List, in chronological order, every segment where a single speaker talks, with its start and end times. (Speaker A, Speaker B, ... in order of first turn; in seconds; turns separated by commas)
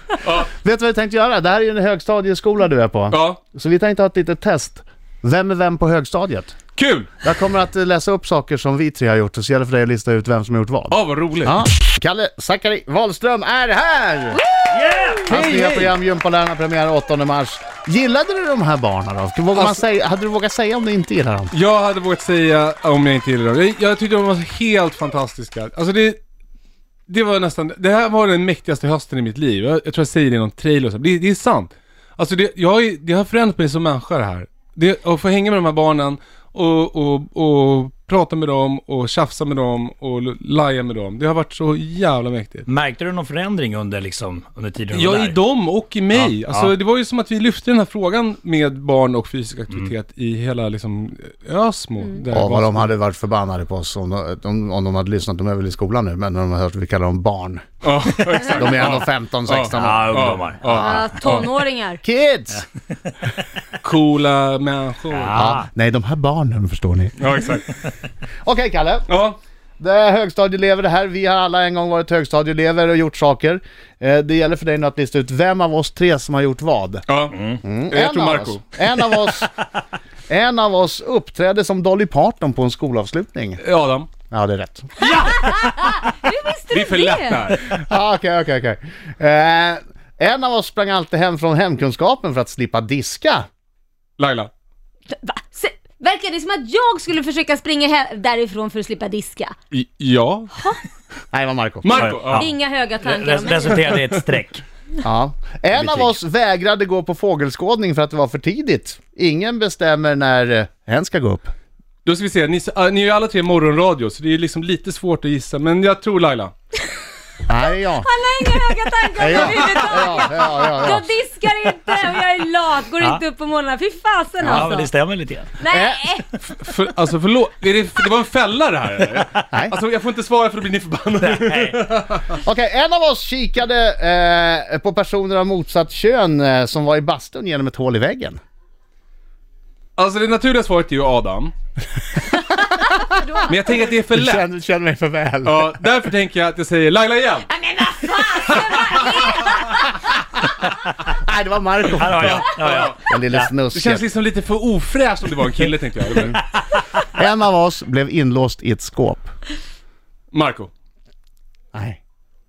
Speaker A: 0.2-0.5, Speaker B: 0.4-6.6, Speaker A: 3.1-3.4, Speaker A: 6.8-7.1, Speaker B: 7.2-14.4, Speaker A: 10.9-11.6, Speaker C: 14.7-15.3, Speaker B: 15.2-21.5, Speaker A: 15.3-15.9, Speaker A: 19.6-19.8, Speaker A: 21.5-26.2, Speaker A: 27.1-42.7, Speaker C: 42.7-45.4, Speaker A: 44.9-52.9, Speaker C: 46.1-46.7, Speaker B: 52.3-57.6, Speaker A: 57.8-61.5, Speaker B: 58.4-61.1, Speaker C: 59.8-61.0, Speaker D: 60.8-62.0, Speaker B: 62.0-62.6, Speaker A: 63.8-65.3, Speaker C: 65.1-65.7, Speaker B: 65.3-67.3, Speaker A: 67.2-67.8, Speaker B: 68.5-69.1, Speaker A: 69.1-69.4, Speaker B: 69.8-77.0, Speaker A: 77.1-78.6, Speaker B: 77.6-79.5, Speaker B: 80.3-83.6, Speaker A: 83.6-84.1, Speaker B: 84.3-84.9, Speaker D: 85.0-87.5, Speaker A: 86.7-87.8, Speaker B: 87.9-93.4, Speaker A: 94.2-94.5, Speaker D: 95.1-99.5, Speaker A: 99.7-100.7, Speaker B: 101.3-102.1, Speaker A: 101.8-102.5, Speaker C: 101.9-104.6, Speaker D: 102.3-104.0, Speaker A: 103.9-104.2, Speaker B: 105.0-111.5, Speaker C: 105.8-106.1, Speaker A: 112.0-116.5, Speaker B: 117.5-118.1, Speaker D: 117.6-124.9, Speaker B: 119.2-121.1, Speaker A: 119.4-120.3, Speaker C: 124.4-125.6, Speaker D: 125.6-126.3, Speaker B: 125.7-126.0, Speaker A: 126.4-132.4, Speaker C: 131.2-131.8, Speaker B: 132.4-138.4, Speaker A: 140.0-141.5, Speaker D: 142.8-143.7, Speaker A: 143.5-144.4, Speaker B: 144.1-145.8, Speaker A: 145.4-147.5, Speaker D: 147.5-149.9, Speaker A: 148.6-149.4, Speaker B: 151.2-154.1, Speaker C: 152.0-153.5, Speaker A: 152.2-153.0, Speaker A: 153.7-156.4, Speaker B: 157.1-159.3, Speaker A: 160.3-160.7, Speaker B: 161.7-162.0